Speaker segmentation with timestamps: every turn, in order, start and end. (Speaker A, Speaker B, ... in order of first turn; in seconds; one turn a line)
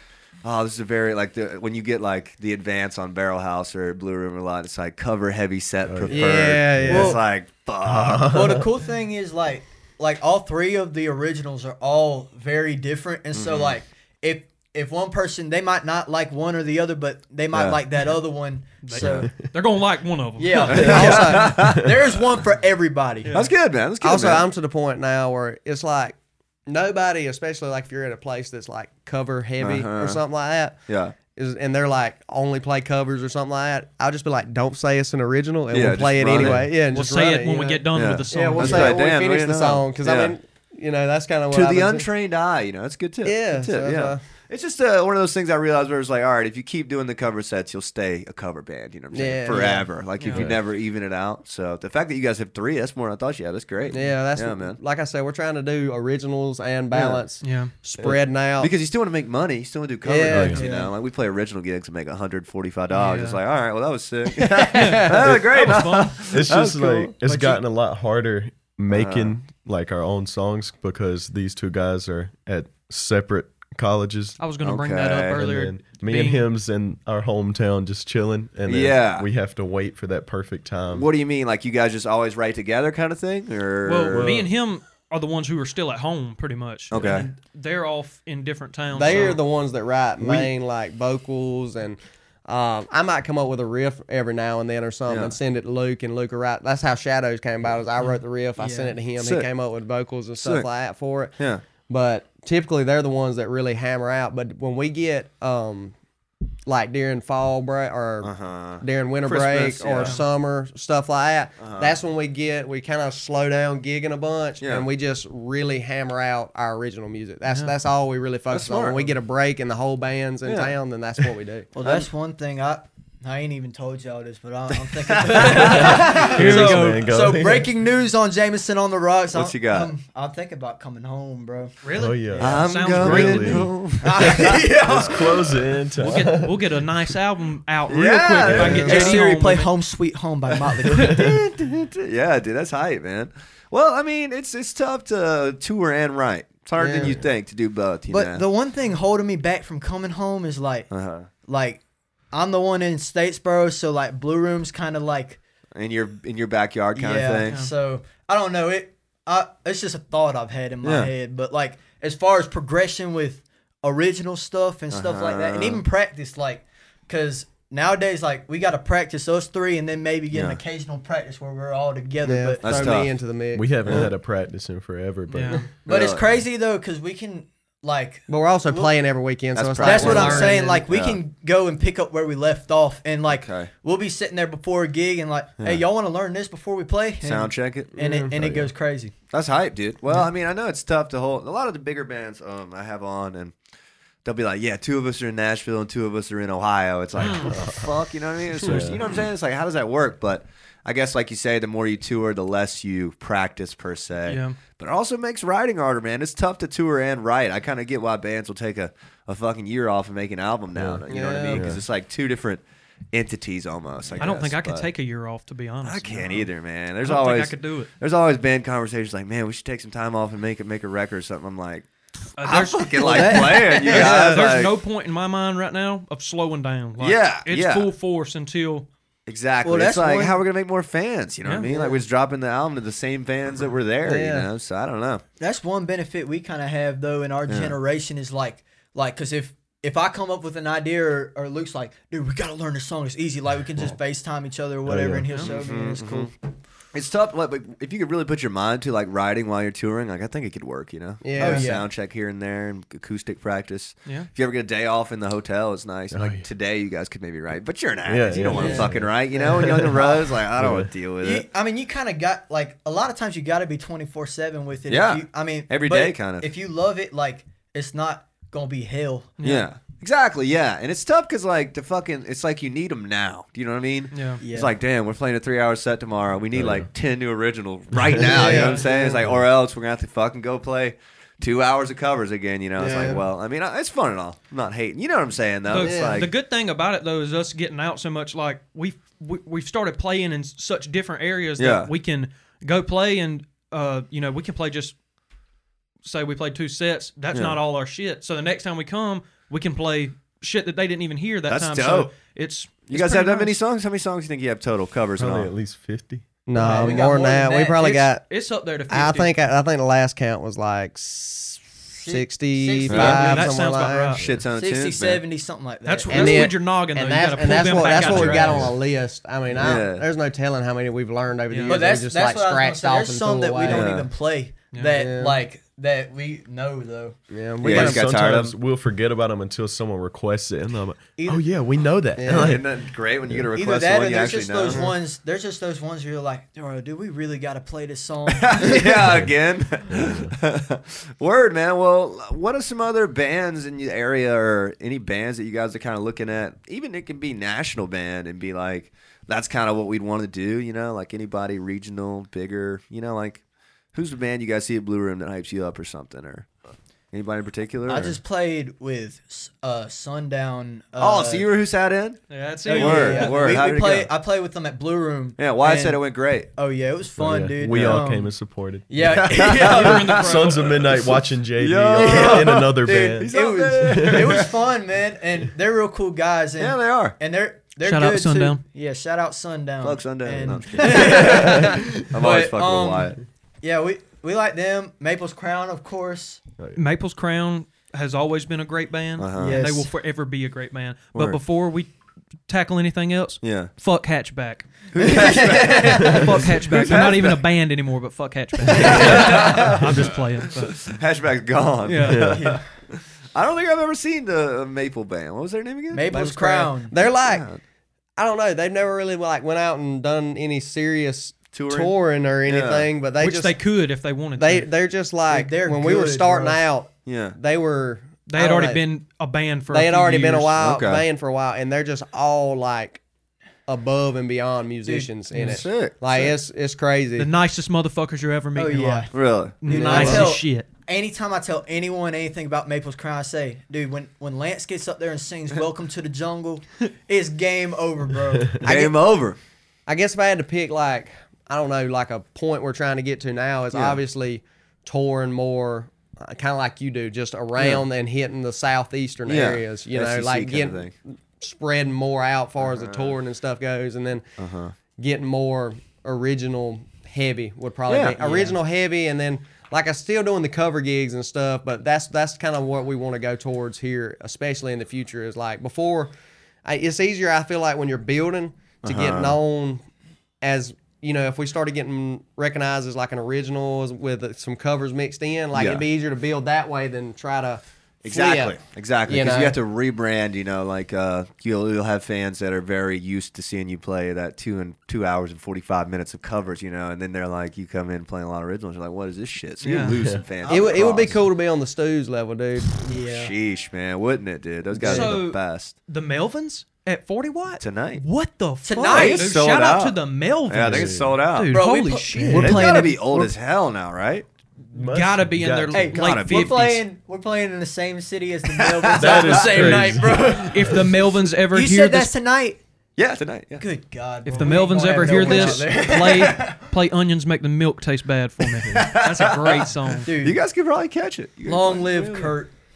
Speaker A: 0.4-8.5
Speaker B: 5.9-7.1
Speaker C: 6.1-7.2
Speaker D: 6.9-7.2
Speaker B: 7.8-8.7
Speaker D: 8.3-19.3
Speaker A: 13.3-13.7
Speaker A: 17.5-17.8
Speaker E: 18.8-21.3
Speaker B: 18.9-19.5
Speaker D: 20.4-23.3
Speaker A: 20.7-22.4
Speaker B: 20.8-21.9
Speaker A: 23.3-24.5
Speaker C: 24.0-42.0
Speaker A: 29.6-30.2
Speaker A: 30.9-31.1
Speaker A: 35.7-36.7
Speaker B: 36.3-36.7
Speaker E: 36.9-39.0
Speaker A: 37.9-40.4
Speaker A: 41.5-54.8
Speaker C: 43.2-44.2
Speaker C: 49.1-49.9
Speaker E: 50.2-50.5
Speaker B: 50.2-50.6
Speaker C: 53.9-58.7
Speaker A: 56.9-57.2
Speaker E: 57.4-57.8
Speaker A: 58.6-67.1
Speaker C: 60.0-60.7
Speaker B: 60.3-60.6
Speaker D: 60.5-60.9
Speaker E: 62.9-63.4
Speaker C: 64.3-65.4
Speaker E: 64.7-66.3
Speaker B: 66.2-74.4
Speaker D: 67.2-67.6
Speaker A: 68.9-69.4
Speaker E: 74.4-76.4
Speaker A: 74.6-75.5
Speaker B: 75.3-81.1
Speaker A: 78.7-79.3
Speaker A: 80.9-84.4
Speaker E: 83.8-89.4
Speaker B: 84.1-84.5
Speaker A: 86.9-87.3
Speaker C: 88.9-105.9
Speaker A: 89.1-89.3
Speaker D: 90.2-90.5
Speaker A: 95.1-95.4
Speaker D: 98.6-99.0
Speaker A: 99.2-99.5
Speaker A: 100.4-100.7
Speaker A: 101.4-101.6
Speaker C: 106.7-121.7
Speaker A: 108.2-110.2
Speaker E: 109.9-110.3
Speaker A: 111.6-112.0
Speaker A: 114.6-114.9
Speaker E: 117.5-117.7
Speaker A: 118.5-119.2
Speaker A: 120.4-120.8
Speaker D: 121.7-131.7
Speaker A: 124.7-126.2
Speaker E: 125.4-127.1
Speaker B: 125.6-127.7
Speaker A: 129.3-129.9
Speaker E: 131.8-133.7
Speaker B: 131.9-136.6
Speaker A: 132.4-135.2
Speaker D: 134.0-135.5
Speaker E: 136.0-139.7
Speaker A: 137.9-139.2
Speaker B: 138.4-139.0
Speaker C: 138.5-139.1
Speaker D: 138.7-141.3
Speaker A: 140.5-148.4
Speaker C: 146.8-147.2
Speaker D: 148.1-150.9
Speaker A: 150.9-151.3
Speaker D: 151.4-155.4
Speaker A: 155.7-157.6
Speaker D: 156.9-173.0
Speaker E: 157.4-157.7
Speaker A: 160.8-161.1
Speaker A: 164.9-165.8
Speaker A: 170.3-170.6
Speaker C: 172.2-174.1
Speaker A: 172.6-173.2
Speaker B: 173.5-175.6
Speaker E: 175.3-175.6
Speaker D: 175.8-178.9
Speaker A: 175.9-176.4
Speaker C: 178.3-180.8
Speaker A: 179.5-181.2
Speaker D: 179.8-189.1
Speaker A: 183.3-183.7
Speaker A: 185.6-185.8
Speaker A: 187.2-187.9
Speaker C: 187.9-188.3
Speaker B: 188.3-188.7
Speaker A: 189.3-193.5
Speaker A: 194.2-214.9
Speaker E: 197.2-197.6
Speaker B: 197.3-197.9
Speaker B: 198.5-199.0
Speaker E: 204.3-204.6
Speaker B: 210.8-211.8
Speaker C: 211.1-211.7
Speaker E: 214.2-216.5
Speaker A: 215.8-221.9
Speaker E: 217.0-217.9
Speaker E: 222.4-228.9
Speaker A: 222.4-224.8
Speaker D: 223.0-223.9
Speaker C: 223.7-224.7
Speaker A: 227.0-227.9
Speaker A: 229.2-235.2
Speaker D: 229.6-230.4
Speaker E: 231.4-231.7
Speaker C: 234.0-234.5
Speaker D: 235.4-246.3
Speaker A: 237.5-237.8
Speaker B: 244.8-245.3
Speaker A: 245.3-246.3
Speaker A: 246.9-261.4
Speaker C: 251.2-251.7
Speaker D: 251.4-251.8
Speaker B: 256.1-256.5
Speaker B: 258.0-260.9
Speaker C: 258.5-258.9
Speaker D: 258.6-260.2
Speaker D: 261.2-269.3
Speaker A: 264.9-266.5
Speaker E: 269.4-269.7
Speaker A: 269.4-286.3
Speaker E: 274.1-274.4
Speaker D: 274.4-274.7
Speaker B: 276.5-276.9
Speaker B: 278.0-278.3
Speaker C: 278.2-279.2
Speaker E: 278.4-278.8
Speaker C: 282.8-283.2
Speaker E: 285.7-294.9
Speaker C: 285.7-286.2
Speaker A: 291.6-291.9
Speaker E: 296.0-303.6
Speaker A: 297.3-297.6
Speaker A: 301.5-302.1
Speaker A: 302.9-305.5
Speaker B: 305.2-306.4
Speaker C: 306.4-308.2
Speaker D: 306.5-308.0
Speaker E: 307.8-309.3
Speaker C: 308.9-314.2
Speaker D: 311.9-313.6
Speaker A: 312.9-313.3
Speaker E: 312.9-314.2
Speaker A: 314.2-315.2
Speaker D: 314.5-316.5
Speaker E: 315.8-318.7
Speaker C: 316.1-323.9
Speaker B: 317.7-318.8
Speaker A: 319.6-320.1
Speaker E: 321.5-321.8
Speaker D: 321.7-327.2
Speaker A: 323.7-324.1
Speaker C: 324.9-325.4
Speaker C: 327.3-328.2
Speaker A: 327.6-328.6
Speaker B: 327.6-332.7
Speaker D: 331.2-331.5
Speaker C: 332.1-332.6
Speaker A: 332.3-334.9
Speaker D: 333.5-339.0
Speaker C: 334.6-334.9
Speaker A: 338.3-353.4
Speaker B: 339.0-339.3
Speaker B: 339.9-340.3
Speaker A: 353.9-356.5
Speaker A: 357.1-358.2
Speaker D: 357.9-361.5
Speaker A: 361.0-364.1
Speaker E: 362.3-363.5
Speaker D: 362.6-368.3
Speaker A: 365.4-366.5
Speaker B: 367.2-374.3
Speaker A: 367.6-368.0
Speaker D: 368.9-370.2
Speaker A: 369.0-374.5
Speaker E: 369.4-370.9
Speaker D: 371.9-386.4
Speaker A: 376.6-377.2
Speaker E: 377.8-378.6
Speaker A: 379.8-383.2
Speaker B: 381.6-382.0
Speaker E: 386.8-391.9
Speaker A: 389.2-389.6
Speaker D: 389.3-389.9
Speaker A: 391.1-391.4
Speaker E: 392.5-400.9
Speaker A: 393.4-393.7
Speaker A: 394.9-397.4
Speaker D: 395.0-396.0
Speaker A: 398.6-406.1
Speaker D: 398.9-399.2
Speaker E: 401.8-402.3
Speaker B: 402.0-402.4
Speaker D: 402.3-402.6
Speaker D: 405.9-406.9
Speaker C: 406.0-407.5
Speaker A: 407.0-407.6
Speaker C: 408.2-413.6
Speaker A: 411.5-412.9
Speaker E: 413.2-414.7
Speaker C: 414.4-418.8
Speaker D: 415.3-416.6
Speaker A: 417.1-417.4
Speaker E: 418.3-420.6
Speaker C: 419.7-423.0
Speaker A: 420.6-421.1
Speaker C: 423.6-427.3
Speaker D: 424.8-425.5
Speaker E: 425.3-425.6
Speaker A: 425.4-426.3
Speaker E: 427.1-430.6
Speaker D: 428.5-429.1
Speaker A: 429.1-430.2
Speaker D: 429.6-438.9
Speaker C: 429.7-430.3
Speaker A: 438.6-439.4
Speaker C: 439.9-454.2
Speaker A: 443.7-444.0
Speaker A: 447.6-447.8
Speaker A: 449.2-450.9
Speaker A: 452.6-453.2
Speaker A: 454.4-454.7
Speaker C: 454.9-466.1
Speaker A: 457.9-458.5
Speaker C: 466.6-469.8
Speaker A: 468.8-469.4
Speaker C: 470.4-479.6
Speaker A: 475.5-475.9
Speaker A: 478.0-491.2
Speaker E: 489.6-490.0
Speaker B: 489.9-490.2
Speaker D: 490.4-490.9
Speaker C: 490.4-492.8
Speaker D: 492.8-493.3
Speaker A: 492.9-495.7
Speaker E: 494.8-502.7
Speaker C: 494.8-495.2
Speaker A: 497.6-498.0
Speaker D: 498.6-499.3
Speaker A: 498.8-501.6
Speaker B: 500.6-501.2
Speaker D: 501.5-503.3
Speaker B: 502.1-502.8
Speaker A: 502.3-504.2
Speaker B: 504.7-505.9
Speaker E: 504.8-506.8
Speaker D: 505.7-510.9
Speaker A: 505.9-506.8
Speaker A: 508.5-509.6
Speaker B: 508.9-510.8
Speaker E: 509.4-512.1
Speaker D: 511.5-512.6
Speaker A: 513.0-513.6
Speaker D: 513.6-516.6
Speaker E: 514.3-520.1
Speaker C: 514.5-515.5
Speaker A: 515.3-515.6
Speaker A: 518.7-522.3
Speaker D: 520.0-520.4
Speaker D: 521.5-522.5